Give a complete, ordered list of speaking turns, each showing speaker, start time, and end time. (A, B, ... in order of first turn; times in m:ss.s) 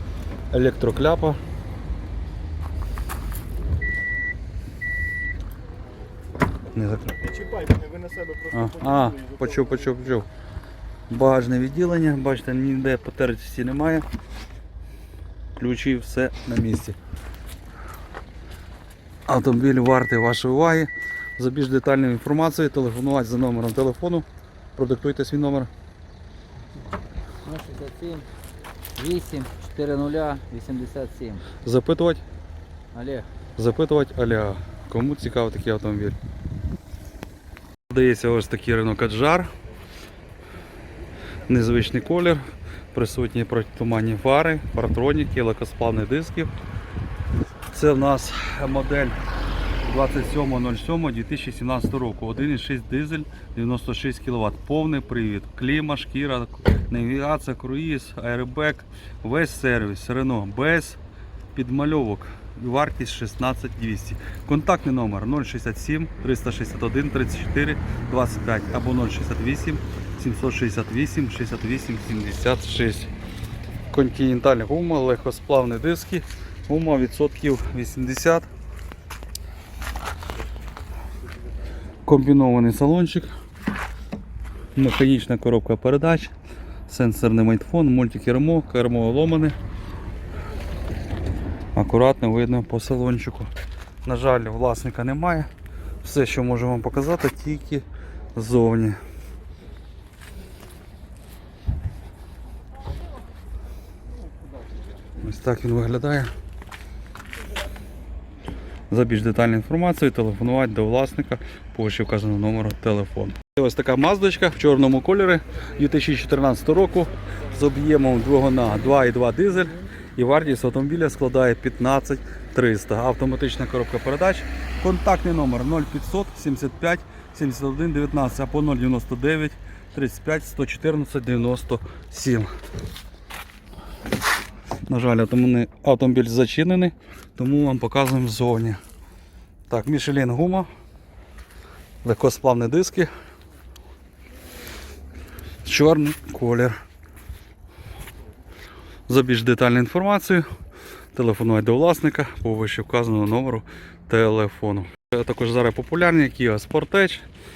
0:00.5-0:01.4 A
0:06.7-0:07.2 A
0:07.2-0:09.3 B
0:08.5-0:10.3 A
0:11.1-0:14.0 A
0:15.6-0:17.0 A
0:19.3-0:25.7 A
0:27.4-0:28.3 C
0:29.0-0:31.5 C
0:31.6-0:32.2 A
0:32.9-0:33.3 C
0:33.6-0:36.2 A
0:37.9-0:39.5 A
0:41.5-0:42.4 A
0:42.9-0:46.5 A
0:47.7-0:49.2 A
0:49.9-1:01.0 A
1:01.5-1:13.1 A
1:13.9-1:18.5 A
1:22.1-1:23.3 A
1:24.8-1:26.3 A
1:26.9-1:29.6 A
1:31.8-1:33.5 A
1:34.0-1:35.5 A
1:36.0-1:39.0 A
1:45.2-1:46.3 A
1:48.9-2:12.5 A
2:14.9-2:18.8 A
2:19.7-2:20.7 A
2:22.0-2:23.1 A
2:25.6-2:26.8 A
2:29.1-2:30.4 A
2:31.1-2:37.2 A